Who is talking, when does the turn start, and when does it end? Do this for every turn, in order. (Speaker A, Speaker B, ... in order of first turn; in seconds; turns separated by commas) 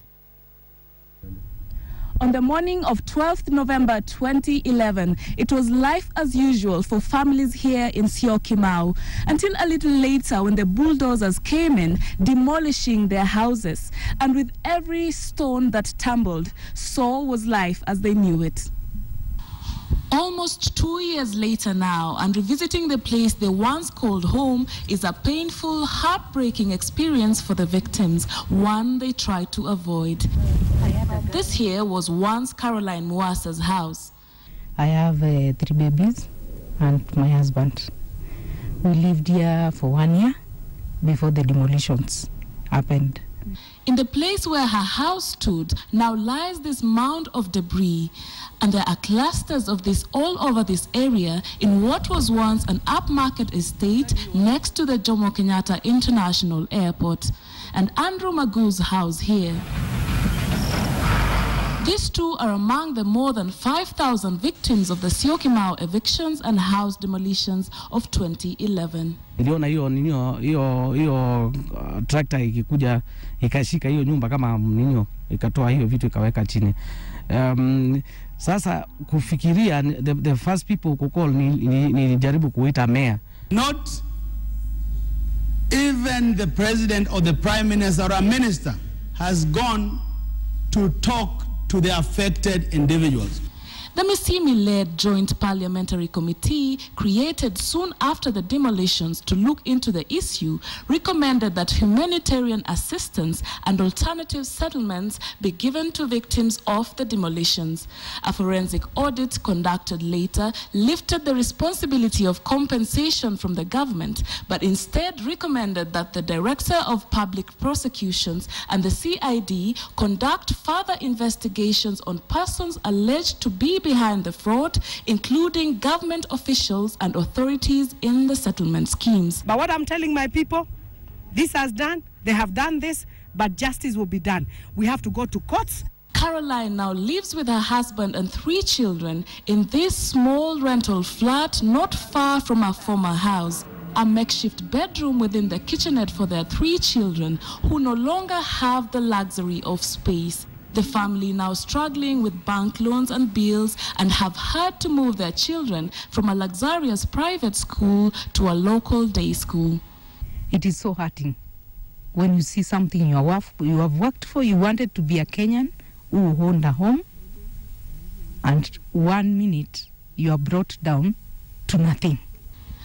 Speaker A: 2.2-18.7, Speaker A: 20.1-30.3, Speaker A: 31.1-34.1, Speaker B: 34.8-36.3, Speaker B: 36.8-37.9, Speaker B: 38.8-40.4, Speaker B: 41.0-43.2, Speaker A: 43.9-59.6, Speaker A: 61.8-69.2, Speaker C: 69.4-76.8, Speaker C: 77.3-83.2, Speaker D: 83.5-84.0, Speaker D: 85.7-90.0, Speaker D: 90.7-93.4, Speaker A: 94.0-129.4, Speaker E: 129.5-130.7, Speaker E: 131.3-135.8, Speaker A: 136.1-159.8, Speaker B: 160.5-161.4, Speaker B: 162.1-167.0, Speaker B: 168.4-171.2, Speaker B: 171.7-172.2